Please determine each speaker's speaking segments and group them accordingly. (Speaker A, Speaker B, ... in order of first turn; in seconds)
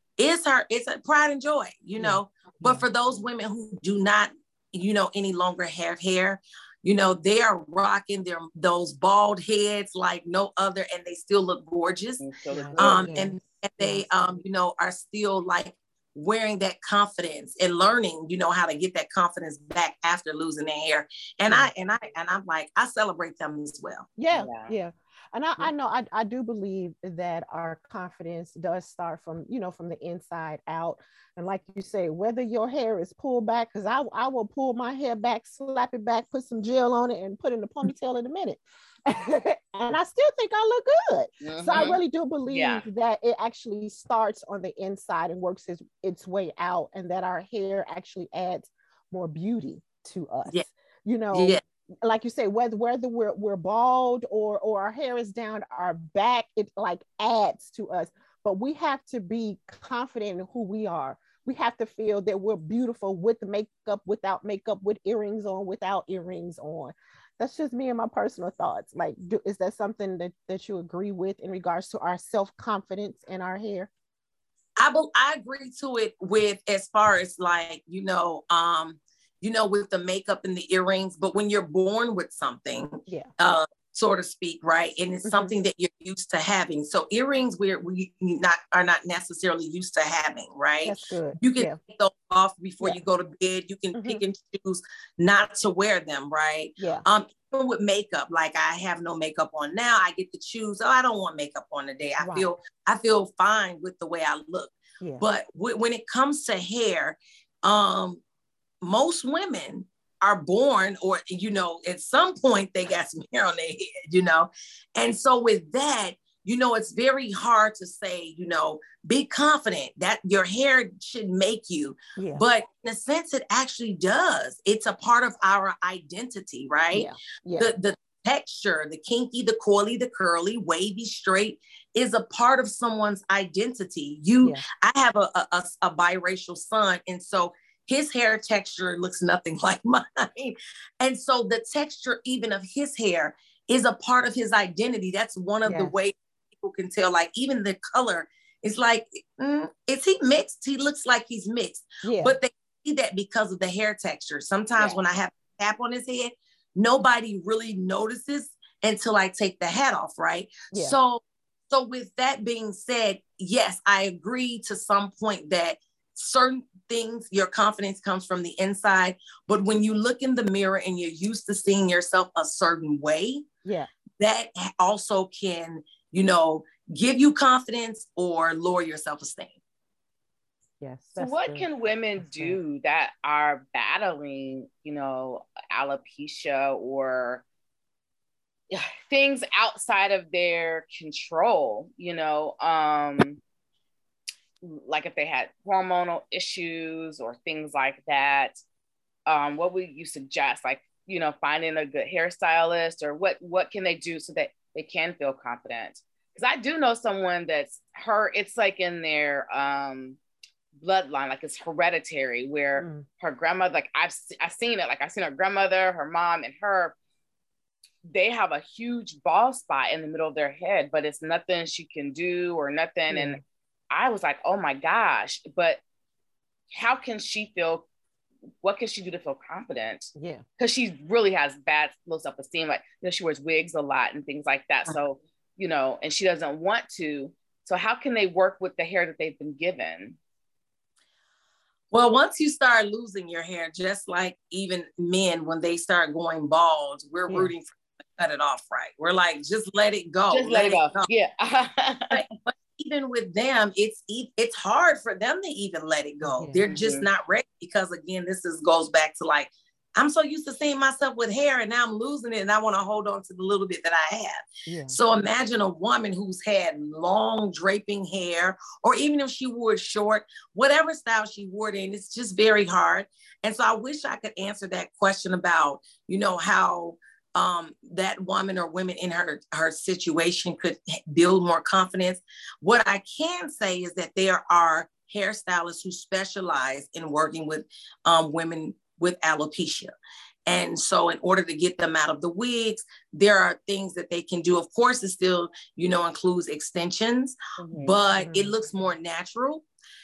Speaker A: 0.2-12.2, 12.8-24.1, 51.3-51.6, 74.8-108.2, 108.8-173.4, 174.2-179.6, 241.9-251.1, 252.1-289.9, 290.5-299.6
Speaker B: 1.9-2.9, 12.5-14.3, 24.2-73.9, 85.2-85.5, 90.8-91.8, 93.9-94.2, 96.8-97.0, 102.2-102.5, 122.2-122.4, 126.9-127.7, 145.7-145.9, 152.0-152.4, 180.8-181.7, 182.2-182.6, 212.8-213.1, 223.1-223.4, 230.2-230.4, 247.3-247.5, 256.2-256.6, 264.7-265.0, 298.1-298.5
Speaker C: 12.2-13.1, 24.3-24.7, 41.4-42.9, 181.2-187.4, 188.7-193.4, 194.6-198.6, 199.3-210.2, 210.8-216.9, 218.1-223.4, 223.9-225.8, 226.7-227.9, 228.6-240.2, 250.3-252.2, 256.6-257.1, 297.6-298.0